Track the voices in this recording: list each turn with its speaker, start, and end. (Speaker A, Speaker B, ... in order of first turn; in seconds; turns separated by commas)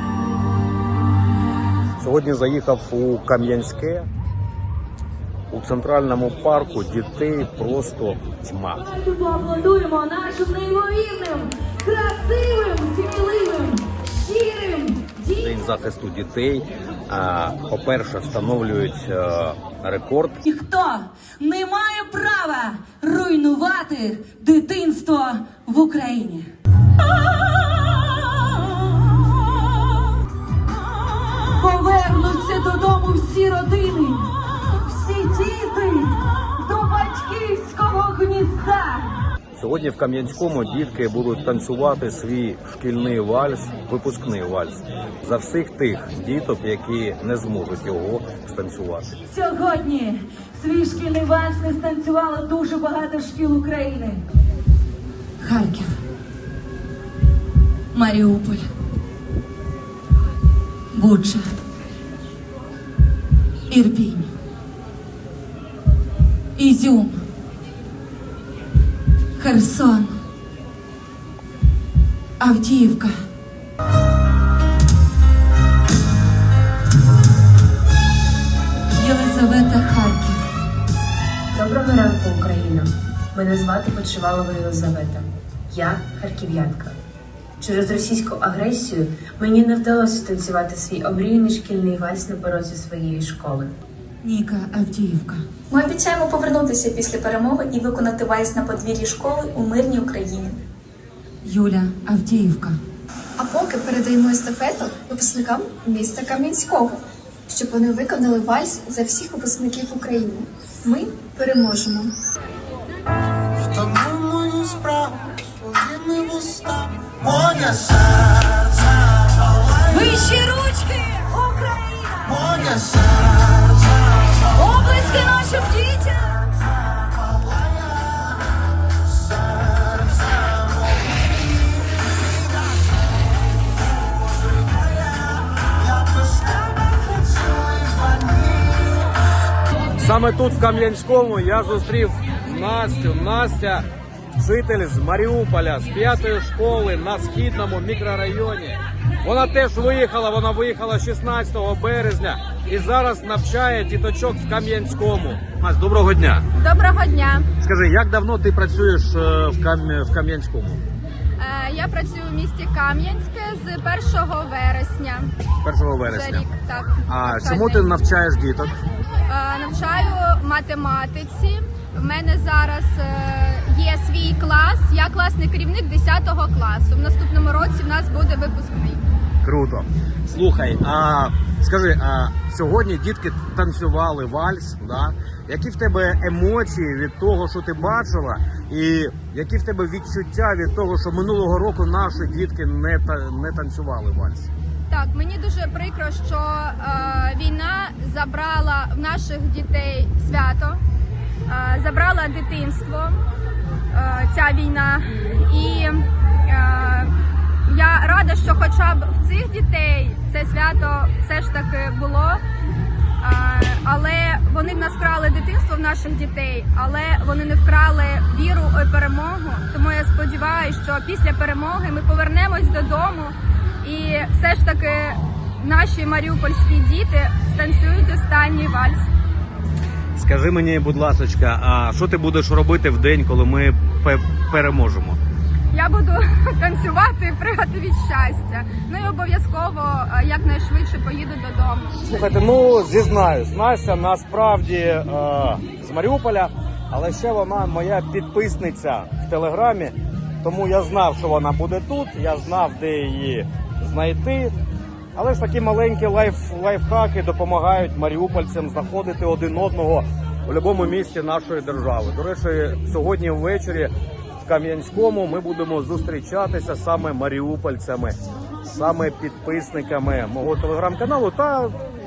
Speaker A: 2.0-4.1, Speaker A: 5.5-8.8, Speaker B: 8.8-15.6, Speaker A: 15.4-20.4, Speaker B: 20.4-26.5, Speaker B: 31.5-39.1, Speaker A: 39.6-49.2, Speaker B: 49.3-54.2, Speaker B: 55.4-56.0, Speaker B: 57.9-58.7, Speaker B: 60.9-61.5, Speaker B: 63.7-64.3, Speaker B: 66.6-67.2, Speaker B: 69.4-70.2, Speaker B: 72.4-73.2, Speaker B: 79.0-80.4, Speaker C: 81.5-87.0, Speaker C: 87.6-93.7, Speaker B: 94.2-95.4, Speaker D: 95.7-96.6, Speaker D: 97.2-97.9, Speaker D: 98.5-100.5, Speaker B: 101.4-102.8, Speaker E: 103.4-112.1, Speaker F: 114.0-115.4, Speaker F: 116.1-117.8, Speaker B: 119.7-123.1, Speaker B: 124.4-126.5, Speaker A: 140.0-143.8, Speaker A: 144.4-156.4, Speaker G: 156.6-157.5, Speaker A: 157.6-160.8, Speaker G: 161.4-165.3, Speaker A: 165.6-166.5, Speaker G: 166.1-167.9, Speaker A: 167.1-168.7, Speaker G: 169.3-179.0, Speaker A: 179.4-194.5, Speaker G: 194.9-200.8, Speaker G: 201.5-203.2, Speaker G: 203.9-207.1, Speaker G: 207.7-212.4, Speaker G: 213.2-229.1, Speaker A: 230.2-235.2, Speaker G: 235.7-242.0, Speaker A: 242.0-254.5, Speaker A: 255.2-263.9, Speaker A: 264.4-271.7